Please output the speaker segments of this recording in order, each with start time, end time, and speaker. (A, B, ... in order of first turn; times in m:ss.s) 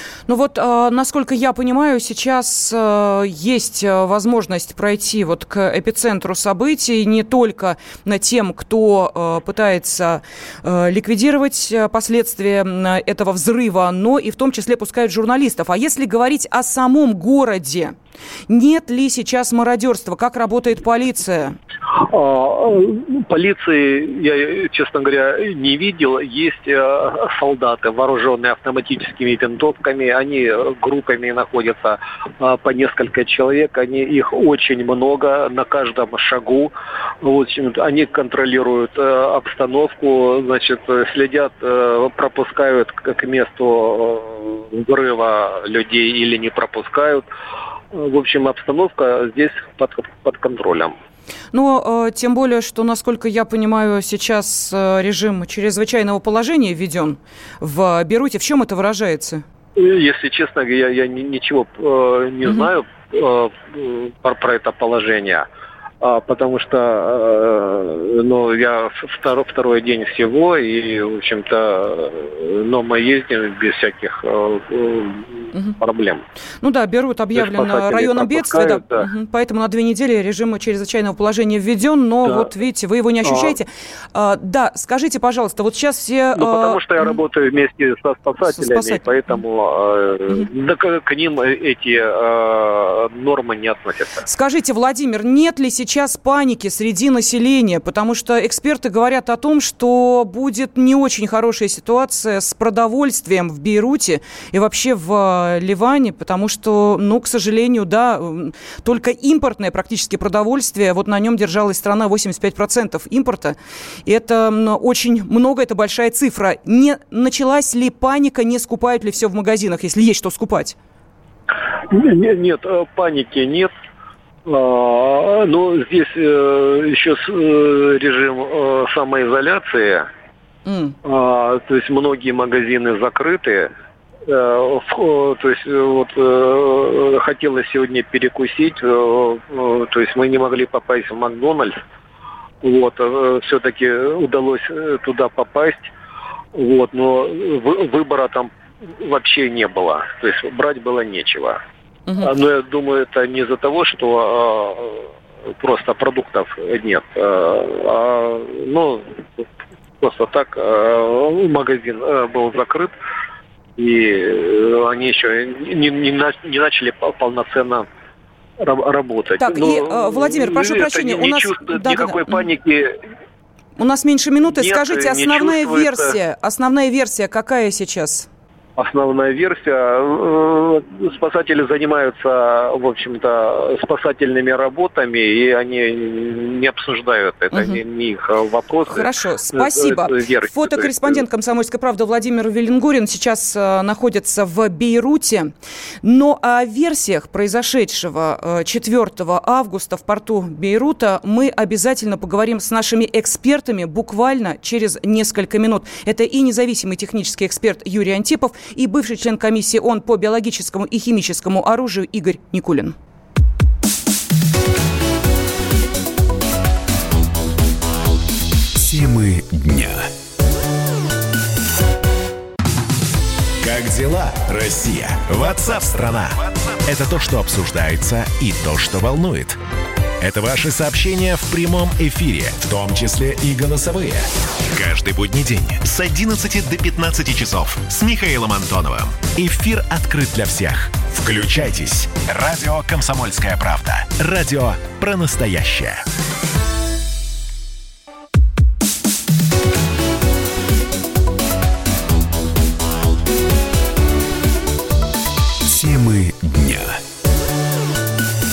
0:00.3-0:18.0 A
0:18.5-0:21.6 A
0:22.0-0:47.2 B
0:47.9-0:51.0 B
0:51.5-0:59.4 A
0:59.8-1:05.5 B
1:06.0-1:16.2 B
1:16.6-1:27.2 A
1:17.4-1:19.1 B
1:23.2-1:23.6 B
1:26.4-1:34.2 B
1:28.5-1:29.0 A
1:34.2-2:00.8 A
2:01.8-2:03.7 B
2:04.5-2:10.1 B
2:10.7-2:11.0 A
2:11.0-2:13.7 B
2:14.3-2:21.8 B
2:22.6-2:25.9 B
2:26.6-2:31.6 B
2:32.2-2:39.5 B
2:40.0-2:42.9 B
2:43.8-2:47.9 B
2:48.6-2:53.0 B
2:49.4-2:52.4 A
2:53.8-2:58.3 A
2:54.4-2:56.2 B
2:58.8-3:11.2 B
3:07.5-3:07.8 A
3:08.9-3:15.5 A
3:16.0-3:33.0 A
3:38.8-3:40.1 C
3:43.6-3:49.6 C
3:50.2-4:06.0 C
4:15.6-4:17.0 C